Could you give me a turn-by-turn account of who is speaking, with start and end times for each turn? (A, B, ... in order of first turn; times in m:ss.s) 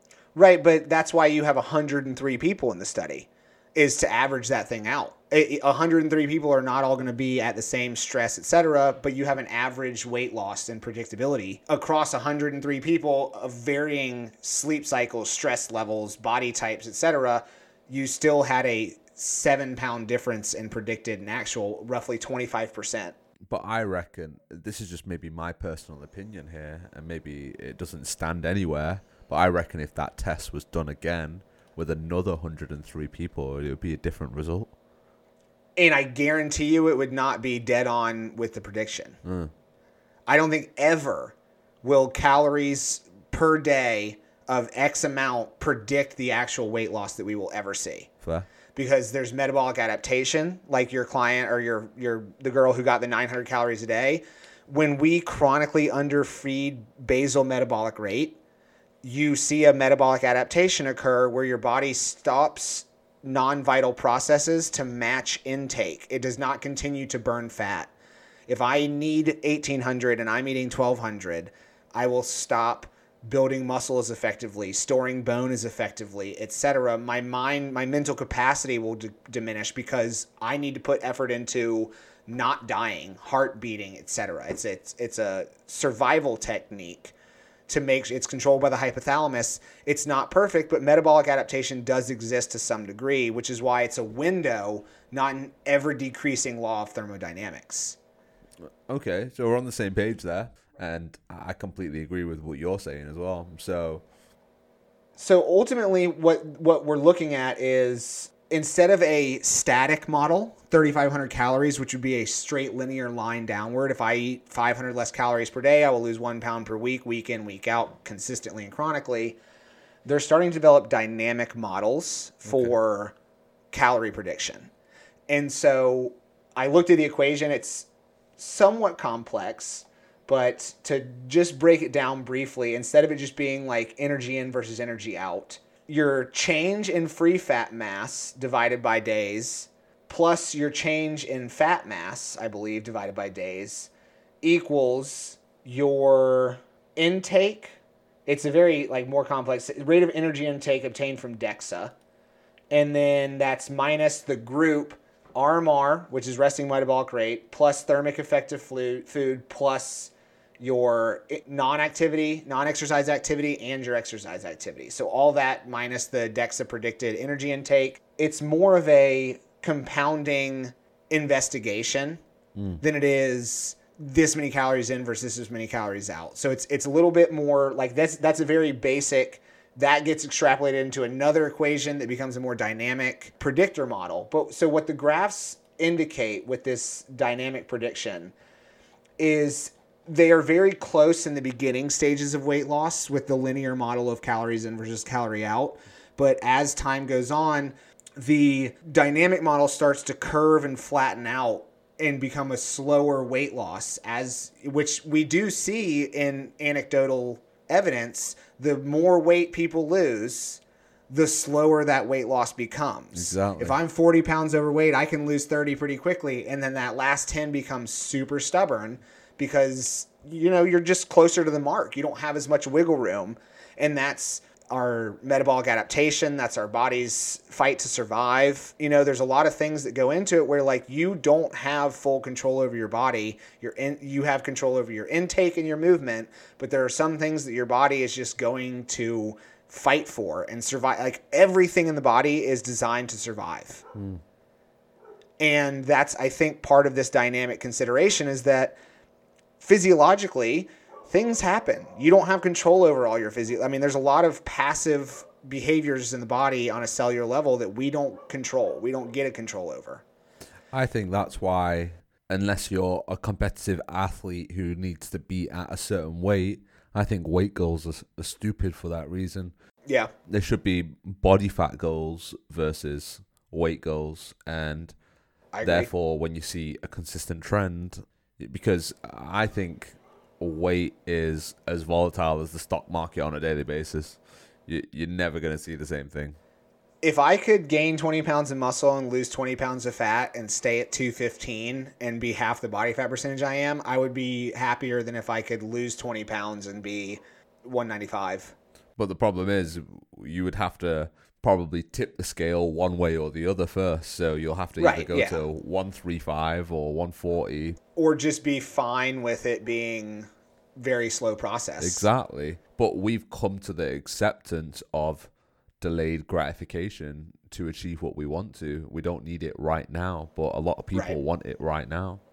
0:00.3-0:23.1 A
0:23.5-0:34.7 B
0:35.8-0:39.2 A
0:39.2-0:39.5 B
0:40.3-0:48.1 A
0:48.2-0:48.5 B
0:48.7-0:58.4 A
0:59.0-1:07.9 A
1:08.5-1:27.1 A
1:27.7-1:38.0 A
1:38.9-1:44.0 B
1:45.2-1:59.4 A
2:00.0-2:03.1 A
2:02.4-2:02.7 B
2:03.7-2:04.7 A
2:05.3-2:07.9 A
2:08.4-2:23.9 A
2:24.4-2:31.9 A
2:32.7-2:52.2 A
2:52.6-2:52.8 B
2:52.8-3:08.3 A
3:09.2-4:03.8 A
3:33.1-3:33.8 B
4:03.9-4:04.2 B
4:05.4-4:08.8 A
4:09.6-4:20.0 A
4:20.7-4:29.5 B
4:29.8-4:30.1 A
4:30.3-4:34.9 B
4:35.5-4:35.9 A
4:35.6-4:46.4 B
4:47.0-4:58.5 A
4:59.0-5:07.8 B
5:04.8-5:05.4 A
5:08.0-5:12.0 A
5:11.8-5:15.3 B
5:15.8-5:22.2 B